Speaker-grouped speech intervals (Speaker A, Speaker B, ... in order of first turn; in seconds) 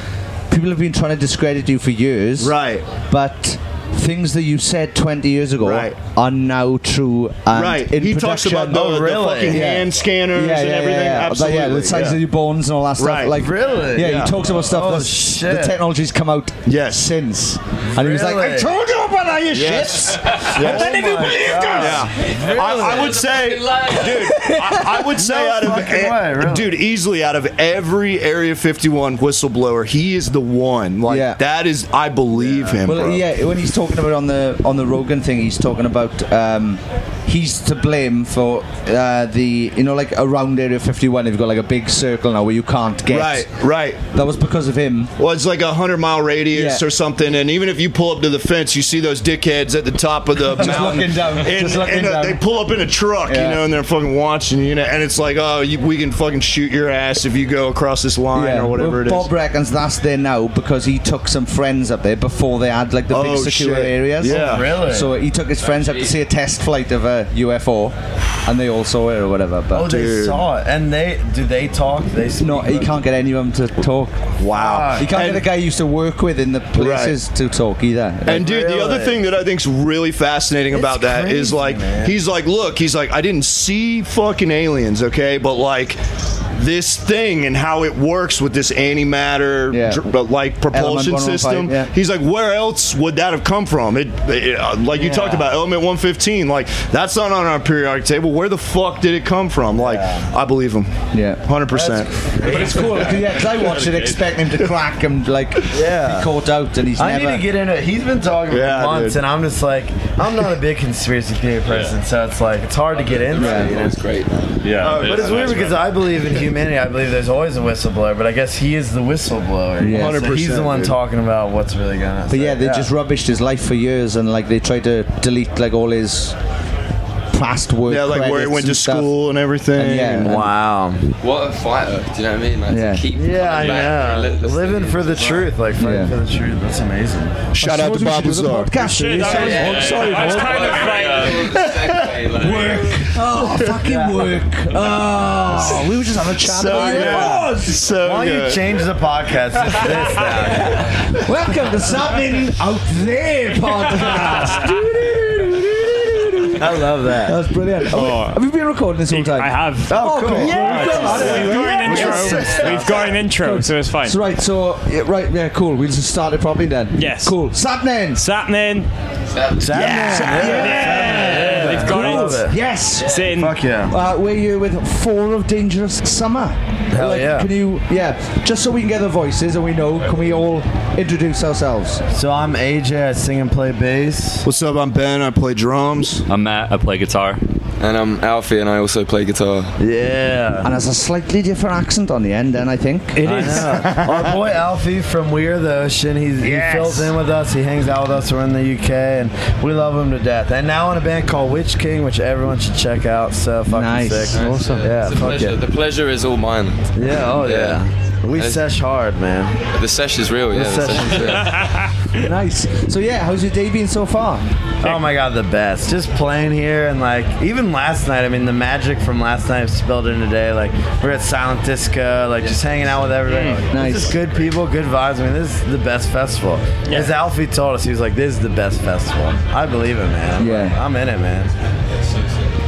Speaker A: 0.5-8.9, 9.5-22.1, 24.1-25.2, 31.1-31.4, 32.8-43.5, 44.0-45.1, 46.5-46.8, 50.5-52.4, 53.3-53.6, 58.3-69.9, 72.4-74.4, 75.0-78.5, 89.7-90.0, 90.7-91.9, 101.1-101.5, 102.4-107.5, 113.4-113.7, 119.8-120.2, 122.3-126.4, 127.3-129.1, 129.8-130.5, 132.7-133.1, 135.8-136.1, 137.6-140.7, 141.6-147.9, 151.2-168.2, 169.7-173.2, 173.9-182.0, 190.6-194.4, 196.4-197.1, 203.7-204.4, 212.2-214.5, 223.7-224.2, 230.4-230.8
Speaker B: 2.4-2.9, 5.6-6.0, 7.5-12.2, 13.0-13.4, 14.0-14.3, 16.7-17.1, 19.5-21.1, 21.7-33.2, 43.1-44.0, 45.2-59.3, 63.1-64.8, 69.8-70.4, 74.4-75.5, 76.8-77.2, 78.2-86.0, 86.6-102.9, 108.5-109.2, 114.8-115.8, 119.9-121.0, 127.9-130.4, 137.5-138.8, 143.4-143.8, 145.5-145.8, 146.4-148.7, 161.7-163.1, 184.4-186.2
Speaker C: 8.7-9.7, 13.3-15.8, 17.9-18.8, 20.4-23.2, 25.2-26.8, 32.4-32.8, 64.2-65.1, 69.7-73.0, 74.5-75.2, 78.4-79.2, 80.7-82.2, 94.9-95.5, 99.7-100.3, 101.7-103.0, 105.7-106.3, 107.0-114.0, 114.9-122.9, 130.2-131.1, 133.1-137.5, 143.8-144.3, 146.8-147.3, 148.0-151.1, 156.6-157.4, 159.9-162.8, 169.6-172.6, 173.3-174.0, 176.9-177.5, 182.1-184.5, 189.8-190.7, 193.2-205.6, 207.0-209.6, 210.5-211.6, 214.8-231.5
Speaker D: 22.8-24.3, 65.6-66.1, 112.9-115.7, 131.2-135.5, 139.2-143.1, 169.3-169.9, 187.8-189.8, 204.3-208.7, 209.7-211.6, 232.0-232.4
Speaker E: 103.9-104.1, 114.6-115.8, 139.4-141.3, 186.3-187.4
Speaker F: 138.8-141.5, 157.9-158.4, 159.1-164.2, 166.9-167.5, 168.1-168.9, 169.8-172.4, 173.0-173.6, 193.2-194.1, 204.4-204.8, 223.3-223.6